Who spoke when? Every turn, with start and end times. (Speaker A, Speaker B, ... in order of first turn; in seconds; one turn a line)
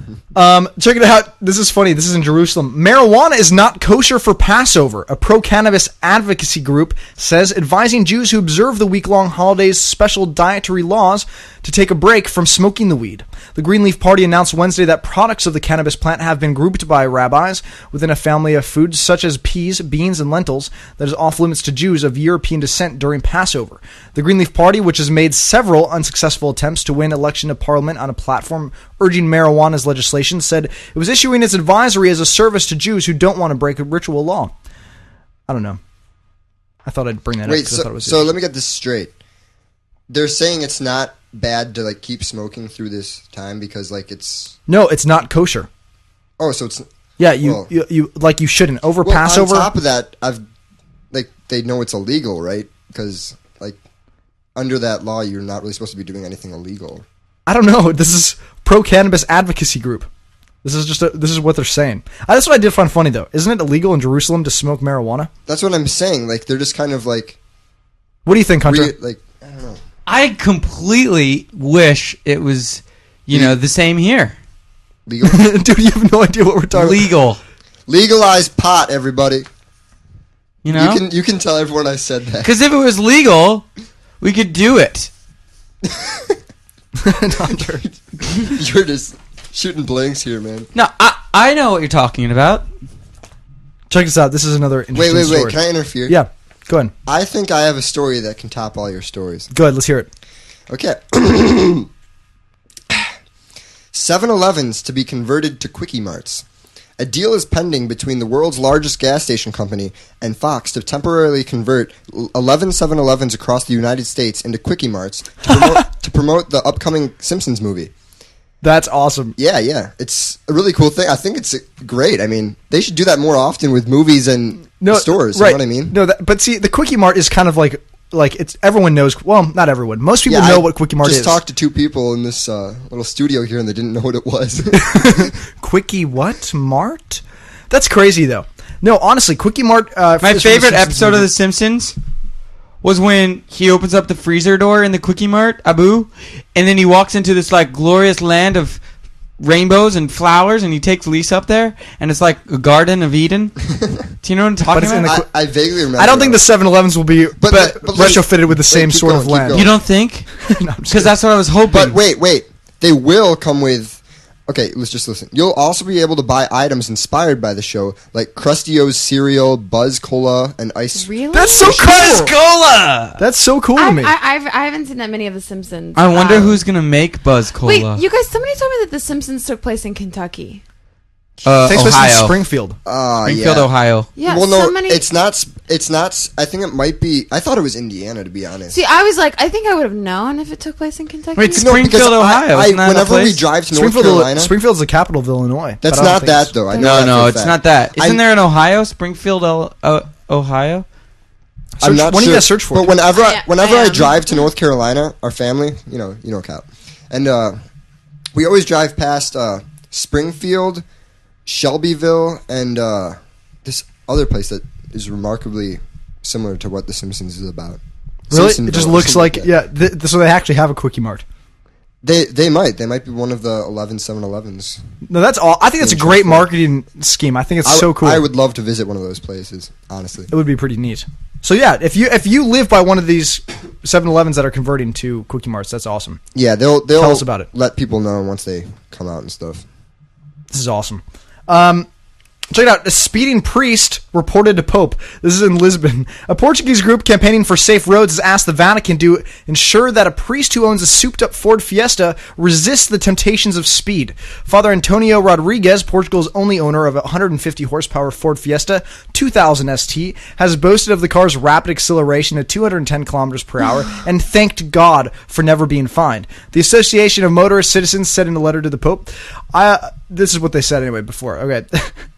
Speaker A: 0.3-34.5
Speaker A: 35.5-35.8
Speaker A: 36.8-38.3
Speaker B: 37.4-39.1
Speaker B: 40.1-44.5
Speaker A: 44.7-45.7
Speaker B: 46.4-46.9
Speaker A: 47.2-49.7
Speaker B: 47.4-47.7
Speaker B: 49.0-50.4
Speaker B: 51.1-53.8
Speaker B: 54.5-57.0
Speaker A: 57.5-60.1
Speaker A: 60.6-65.3
Speaker B: 65.5-67.4
Speaker A: 68.2-68.9
Speaker B: 68.7-69.8
Speaker C: 70.0-74.3
Speaker B: 75.0-75.5
Speaker A: 75.2-77.1
Speaker C: 76.7-77.4
Speaker B: 77.9-79.5
Speaker C: 80.6-81.0
Speaker B: 80.7-82.5
Speaker C: 82.4-83.7
Speaker C: 84.2-85.1
Speaker B: 85.8-86.3
Speaker A: 87.0-87.9
Speaker B: 88.4-90.7
Speaker C: 90.7-92.6
Speaker A: 93.9-96.9
Speaker B: 94.9-96.2
Speaker B: 97.0-99.5
Speaker A: 99.5-100.1
Speaker B: 100.7-101.9
Speaker B: 103.9-106.4
Speaker B: 107.0-117.9
Speaker A: 115.5-115.8
Speaker A: 118.6-119.3
Speaker B: 119.4-125.9
Speaker A: 124.8-131.4
Speaker B: 130.2-135.3
Speaker A: 134.7-141.3
Speaker C: 140.2-141.9
Speaker C: 142.8-148.8
Speaker C: 149.4-153.5
Speaker C: 154.2-155.1
Speaker A: 154.7-155.2
Speaker B: 155.0-156.4
Speaker A: 156.0-159.7
Speaker B: 157.4-159.7
Speaker C: 159.5-160.3
Speaker A: 160.4-161.1
Speaker C: 160.9-162.0
Speaker B: 161.7-171.1
Speaker D: 170.9-171.9
Speaker A: 171.3-172.3
Speaker C: 171.6-173.2
Speaker A: 173.2-174.1
Speaker D: 173.8-176.6
Speaker C: 175.9-178.0
Speaker D: 177.6-180.6
Speaker C: 181.4-182.3
Speaker B: 181.4-181.8
Speaker A: 181.7-182.8
Speaker B: 182.8-188.8
Speaker C: 183.2-184.1
Speaker D: 184.2-185.0
Speaker D: 188.7-191.7
Speaker C: 191.4-193.4
Speaker B: 191.5-194.5
Speaker A: 193.7-196.5
Speaker B: 195.8-198.2
Speaker D: 196.7-196.9
Speaker C: 196.7-200.8
Speaker A: 201.8-202.9
Speaker B: 201.8-207.6
Speaker D: 203.1-204.4
Speaker B: 208.3-210.8
Speaker B: 211.4-217.8
Speaker A: 218.3-221.2
Speaker B: 218.3-219.5
Speaker B: 222.0-224.8
Speaker A: 225.1-228.2
Speaker B: 225.8-226.5
Speaker B: 227.6-230.3
Speaker A: 230.3-236.2
Speaker B: 236.3-239.6
Speaker A: 236.9-237.5
Speaker A: 240.5-241.9
Speaker A: 242.5-271.9